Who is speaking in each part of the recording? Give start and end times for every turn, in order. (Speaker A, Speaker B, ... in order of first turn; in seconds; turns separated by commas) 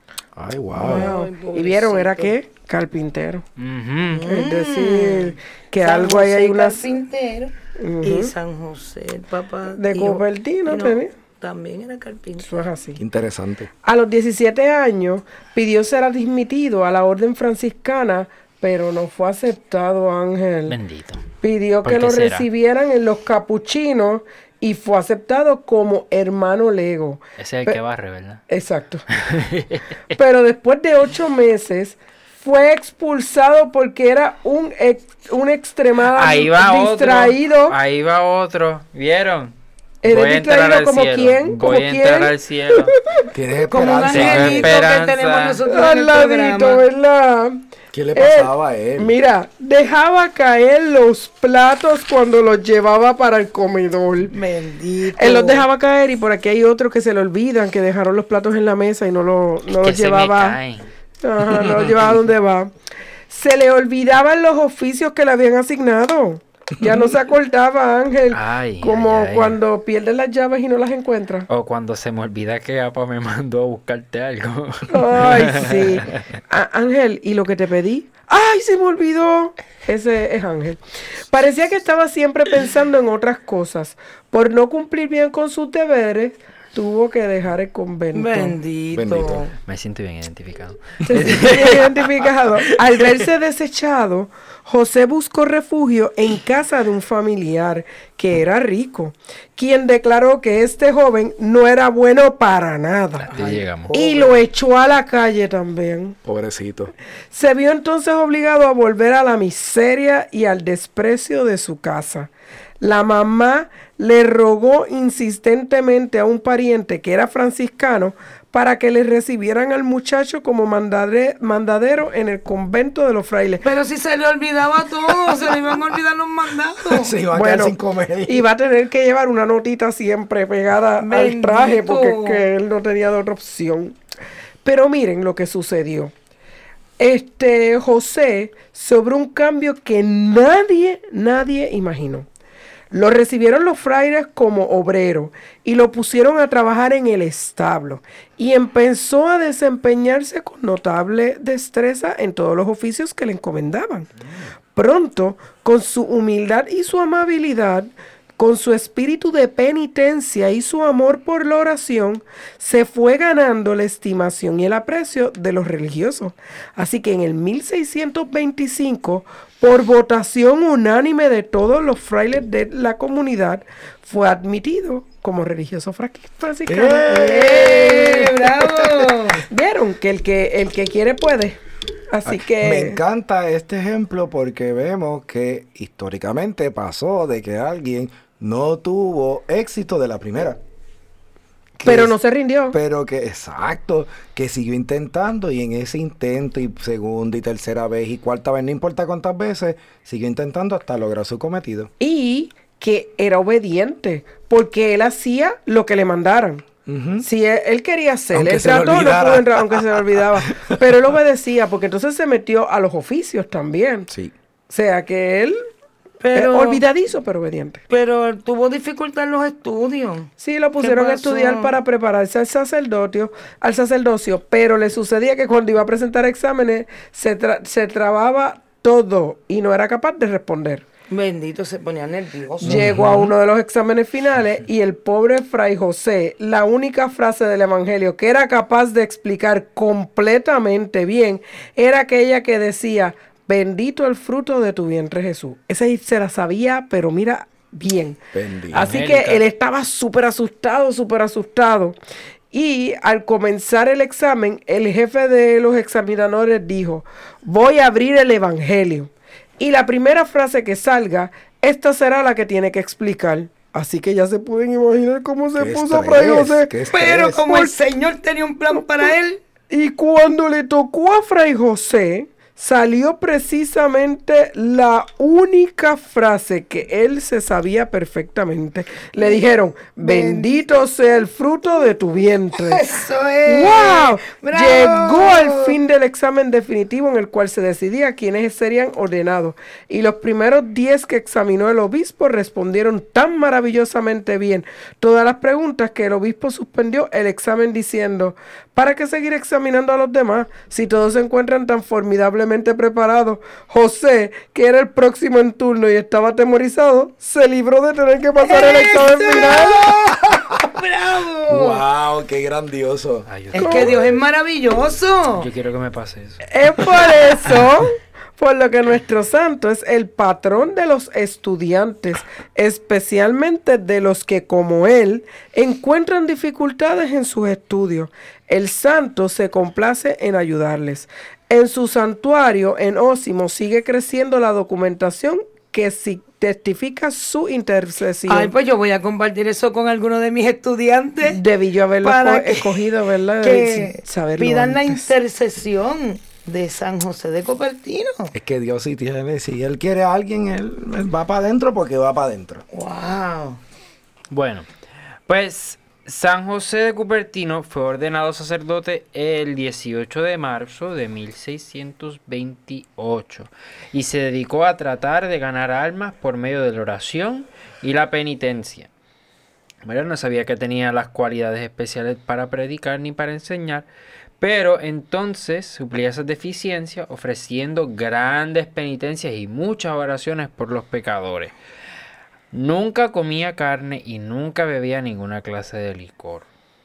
Speaker A: 0.3-1.1, Speaker B: 0.8-2.4, Speaker C: 0.8-3.4, Speaker D: 3.6-4.3, Speaker B: 4.1-12.5, Speaker C: 4.2-7.0, Speaker C: 7.8-8.3, Speaker C: 9.8-11.1, Speaker C: 12.4-13.0, Speaker A: 13.0-13.7, Speaker C: 13.8-20.8, Speaker D: 20.7-21.3, Speaker C: 21.4-27.8, Speaker D: 21.8-22.5, Speaker D: 27.4-28.4, Speaker C: 28.5-29.1, Speaker D: 29.1-29.9, Speaker C: 30.1-37.8, Speaker D: 36.1-42.9, Speaker C: 40.0-42.3, Speaker C: 42.9-43.2, Speaker A: 43.3-44.8, Speaker B: 43.6-46.8, Speaker D: 44.1-45.6, Speaker C: 45.7-47.6, Speaker A: 47.9-49.1, Speaker C: 48.1-54.4, Speaker B: 54.3-55.6, Speaker C: 55.2-60.6, Speaker D: 59.8-60.9, Speaker C: 61.2-62.7, Speaker C: 63.3-71.5, Speaker A: 66.8-67.1, Speaker D: 68.3-69.6, Speaker D: 71.5-76.2, Speaker C: 74.9-88.6, Speaker B: 88.1-89.5, Speaker A: 88.9-89.4, Speaker D: 89.7-92.6, Speaker C: 91.1-103.3, Speaker D: 103.2-103.9, Speaker B: 103.3-104.4, Speaker C: 103.9-106.2, Speaker A: 106.2-106.9, Speaker C: 107.3-112.3, Speaker C: 112.8-123.6, Speaker B: 123.6-127.1, Speaker A: 126.8-128.5, Speaker C: 127.3-127.8, Speaker C: 128.3-134.0, Speaker B: 131.0-132.4, Speaker C: 134.6-136.1, Speaker C: 137.0-142.3, Speaker C: 142.9-154.1, Speaker C: 154.8-178.3, Speaker A: 176.7-179.3, Speaker B: 177.2-179.4, Speaker C: 179.5-183.0, Speaker A: 182.2-190.6, Speaker A: 191.8-192.2, Speaker C: 191.8-192.8, Speaker A: 192.7-201.9, Speaker C: 202.0-206.6, Speaker A: 206.9-207.2, Speaker C: 207.2-214.1, Speaker A: 208.3-211.0, Speaker C: 214.7-215.7, Speaker B: 216.2-216.8, Speaker C: 216.3-217.8, Speaker B: 217.9-221.8, Speaker C: 220.4-230.8, Speaker B: 231.1-232.8, Speaker C: 232.6-248.2, Speaker A: 232.7-233.2, Speaker A: 248.3-248.9, Speaker C: 248.7-252.0, Speaker D: 248.8-249.4, Speaker C: 252.5-266.7, Speaker A: 265.6-267.7, Speaker B: 266.9-269.4, Speaker C: 269.7-282.8, Speaker B: 280.0-280.6, Speaker B: 282.6-285.7, Speaker C: 283.5-309.8, Speaker B: 308.4-311.8, Speaker A: 310.3-310.5, Speaker A: 311.5-313.3, Speaker D: 313.3-314.2, Speaker B: 313.5-315.5, Speaker C: 313.6-313.9, Speaker D: 315.4-317.1, Speaker C: 316.5-338.5, Speaker B: 338.3-341.4, Speaker C: 341.2-345.1, Speaker B: 342.0-342.9, Speaker B: 343.4-348.3, Speaker A: 348.3-352.6, Speaker B: 352.7-353.6, Speaker D: 354.3-354.7, Speaker D: 355.3-368.9, Speaker D: 369.8-373.9, Speaker D: 374.4-381.5, Speaker D: 382.5-386.5